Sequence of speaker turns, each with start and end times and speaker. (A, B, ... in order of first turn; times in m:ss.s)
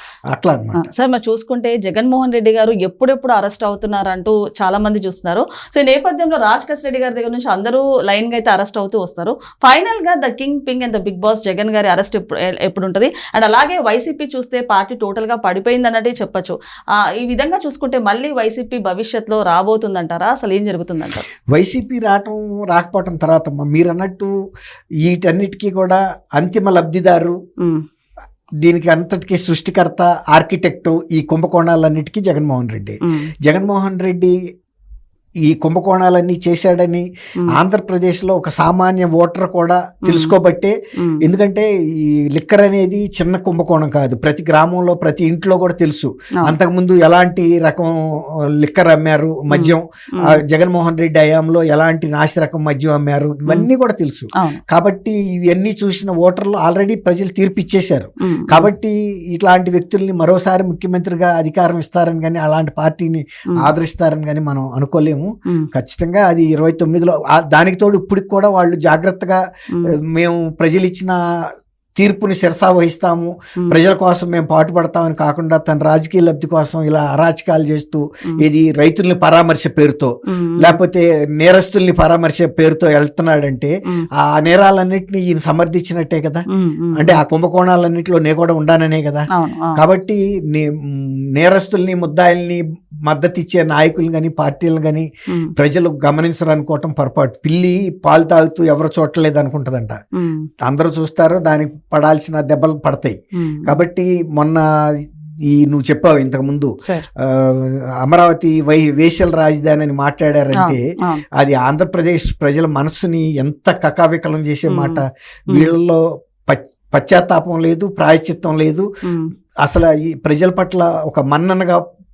0:00.3-0:00.9 A
0:00.7-0:21.3 B
0:21.5-0:24.3 A
0:25.0-0:27.4 A
0:28.6-0:34.3 A
0:33.0-0:33.3 B
0:35.4-1:09.4 A
0:40.0-0:40.3 B
0:49.5-0:50.4 B
0:58.2-0:58.7 B
1:09.9-1:11.2 A
1:12.0-1:26.4 A
1:20.3-1:20.8 B
1:26.5-1:27.2 B
1:26.9-1:40.0 A
1:29.3-1:29.8 B
1:40.2-1:40.5 B
1:40.6-1:50.8 A
1:43.4-1:43.7 B
1:50.6-1:51.2 B
1:51.4-1:58.9 A
1:54.7-1:55.7 B
1:59.0-1:59.3 B
1:59.6-2:01.8 A